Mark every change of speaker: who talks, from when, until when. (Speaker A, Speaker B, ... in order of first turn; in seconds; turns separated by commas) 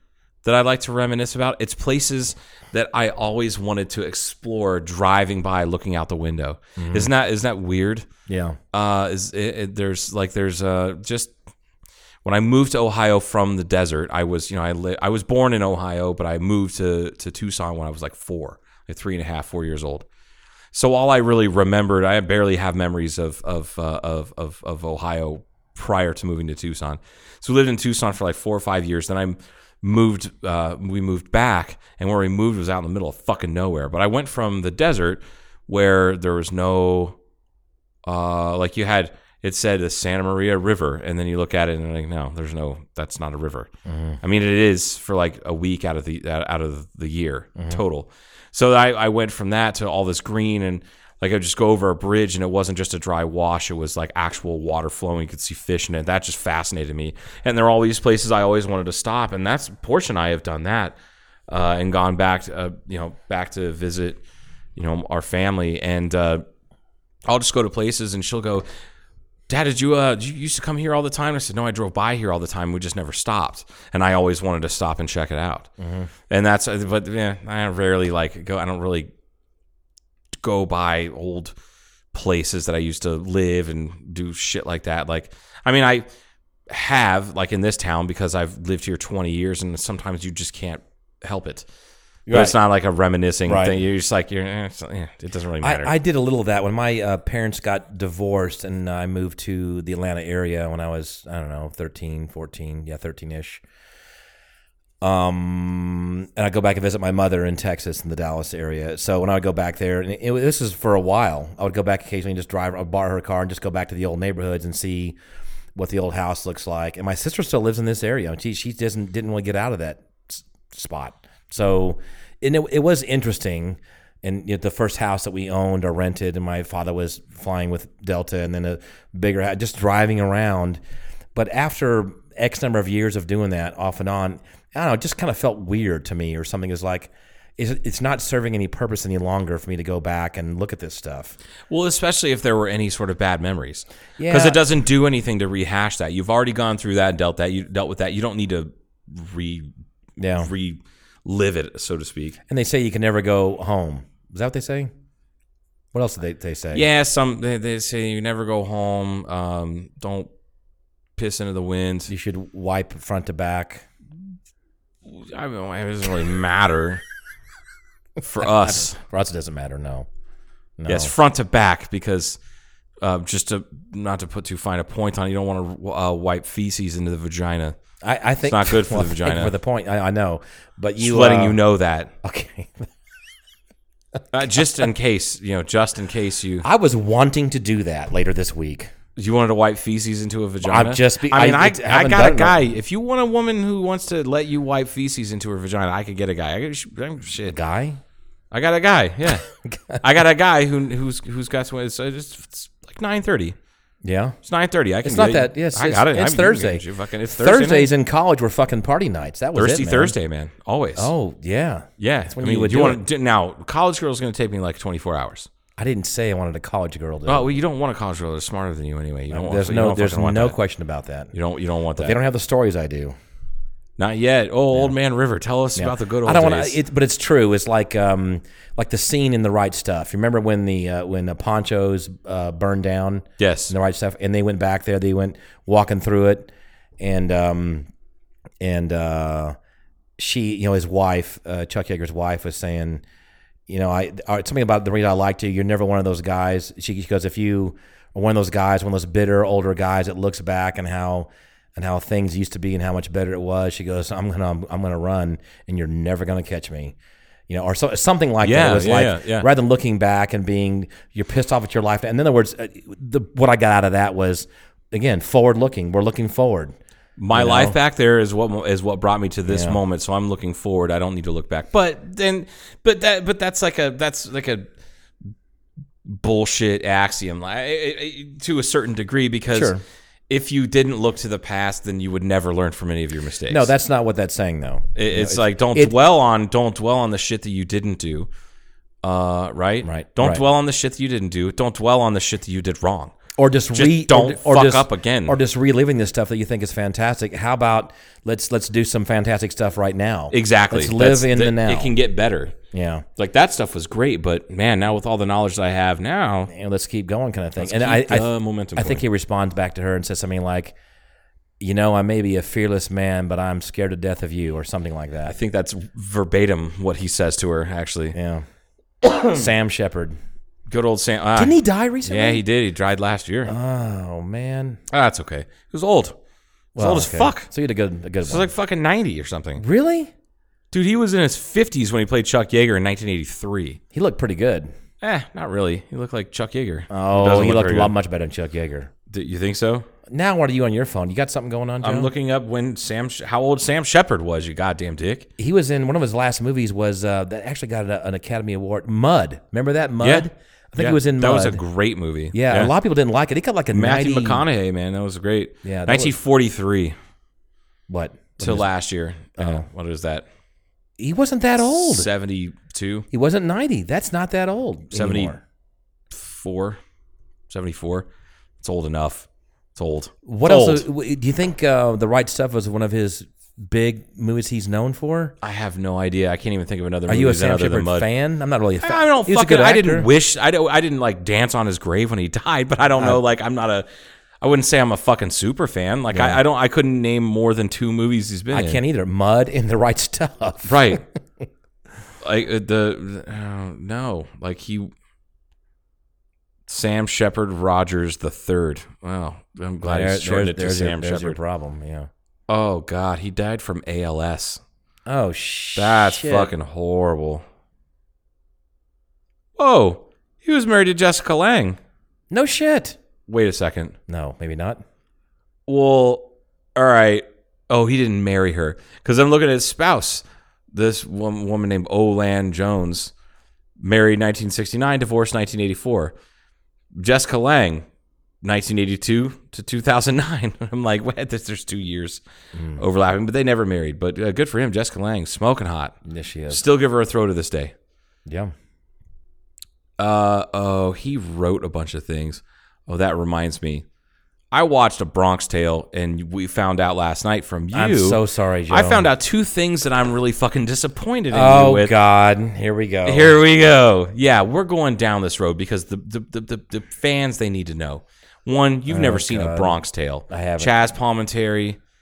Speaker A: 0.4-8.1, Speaker B: 6.8-7.1, Speaker B: 8.3-8.6, Speaker A: 8.7-11.3, Speaker A: 12.2-20.1, Speaker A: 20.7-37.2, Speaker A: 38.0-43.7, Speaker B: 43.9-44.2, Speaker A: 44.2-61.0, Speaker A: 61.5-64.2, Speaker A: 64.8-66.4, Speaker A: 67.2-68.7, Speaker A: 69.5-75.7, Speaker B: 75.8-76.1, Speaker A: 76.3-79.1, Speaker A: 80.3-81.5, Speaker A: 82.1-86.0, Speaker A: 86.7-91.7, Speaker B: 92.3-92.5, Speaker A: 92.3-95.9, Speaker B: 93.5-93.8, Speaker B: 95.6-103.6, Speaker B: 105.0-115.2, Speaker B: 115.7-130.8, Speaker B: 131.3-141.3, Speaker A: 141.7-149.7, Speaker B: 144.2-144.6, Speaker B: 150.2-150.5, Speaker A: 150.4-152.4, Speaker B: 152.5-154.9, Speaker B: 155.9-156.8, Speaker A: 156.7-160.3, Speaker A: 161.2-162.1, Speaker B: 162.1-163.9, Speaker A: 165.0-167.0, Speaker A: 168.2-169.0, Speaker B: 168.4-170.1, Speaker B: 170.8-171.1, Speaker A: 170.9-172.4, Speaker A: 173.0-177.8, Speaker B: 178.0-181.6, Speaker A: 178.4-179.5, Speaker A: 181.0-182.1, Speaker B: 182.2-182.9, Speaker A: 184.3-186.6, Speaker B: 186.6-188.9, Speaker A: 189.2-197.6, Speaker B: 190.6-192.6, Speaker B: 197.5-198.0, Speaker A: 198.5-199.4, Speaker B: 199.7-200.0, Speaker A: 200.0-203.6, Speaker B: 204.0-204.3, Speaker A: 204.4-207.9, Speaker B: 205.0-210.1, Speaker A: 209.5-211.1, Speaker B: 210.9-213.0, Speaker A: 212.0-215.5, Speaker B: 215.8-217.5, Speaker A: 217.3-220.6, Speaker B: 219.3-221.3, Speaker A: 221.3-222.2, Speaker B: 222.0-223.2, Speaker A: 224.0-226.8, Speaker B: 225.8-237.9, Speaker A: 233.4-233.7, Speaker B: 238.6-239.6, Speaker B: 240.2-243.0, Speaker B: 243.7-256.9, Speaker B: 257.5-266.7, Speaker A: 258.4-259.5, Speaker A: 267.2-274.7, Speaker B: 267.3-267.8, Speaker B: 269.5-269.8, Speaker A: 276.0-279.7, Speaker B: 279.5-279.8, Speaker A: 280.3-283.7, Speaker B: 283.5-285.9, Speaker A: 284.9-288.3, Speaker A: 289.0-293.1, Speaker B: 289.8-290.4, Speaker B: 293.4-301.9, Speaker A: 293.7-295.4, Speaker A: 300.3-302.6, Speaker B: 302.7-303.1, Speaker A: 303.2-306.5, Speaker B: 306.5-310.7, Speaker A: 307.6-309.0, Speaker B: 311.6-315.4, Speaker A: 315.2-318.1, Speaker B: 318.1-318.4, Speaker A: 319.0-319.3, Speaker B: 319.2-320.1, Speaker A: 320.7-323.5, Speaker B: 321.4-322.4, Speaker B: 323.4-324.8, Speaker A: 324.9-326.2, Speaker B: 326.7-328.5, Speaker A: 326.8-327.5, Speaker A: 328.2-329.6, Speaker B: 329.6-330.1, Speaker A: 330.7-333.8, Speaker B: 333.9-334.7, Speaker A: 335.0-337.9, Speaker B: 336.9-338.9, Speaker A: 339.1-339.9, Speaker B: 340.1-342.1, Speaker A: 341.8-345.3, Speaker B: 345.4-351.6, Speaker A: 350.0-352.7, Speaker B: 352.3-354.4, Speaker A: 353.7-356.9, Speaker B: 355.6-356.1, Speaker B: 357.9-358.7, Speaker A: 358.4-360.3, Speaker B: 359.4-359.6, Speaker B: 361.0-362.1, Speaker A: 361.6-363.1, Speaker B: 363.1-365.4, Speaker A: 364.9-365.3, Speaker A: 366.1-366.8, Speaker A: 367.5-368.1, Speaker A: 368.6-370.8, Speaker B: 370.2-375.3, Speaker A: 375.4-378.1, Speaker B: 377.1-380.1, Speaker A: 378.8-383.9, Speaker A: 384.4-388.8, Speaker B: 386.1-386.4, Speaker B: 388.5-391.0, Speaker A: 390.6-391.0, Speaker A: 392.2-394.9, Speaker A: 396.7-401.4, Speaker B: 399.8-402.1, Speaker A: 402.5-404.6, Speaker B: 405.1-406.5, Speaker A: 405.8-407.4, Speaker A: 409.6-411.8, Speaker B: 412.3-413.0, Speaker A: 413.3-413.9, Speaker B: 414.1-414.8, Speaker A: 415.7-423.1, Speaker A: 423.8-426.1, Speaker A: 426.9-427.9, Speaker A: 428.4-432.2, Speaker B: 432.5-432.8, Speaker A: 432.8-436.0, Speaker B: 436.0-436.6, Speaker A: 436.5-437.7, Speaker B: 438.3-438.5, Speaker A: 440.0-443.8, Speaker A: 444.5-451.9, Speaker B: 447.7-449.1, Speaker B: 451.3-453.4, Speaker A: 453.0-461.8, Speaker B: 458.9-460.7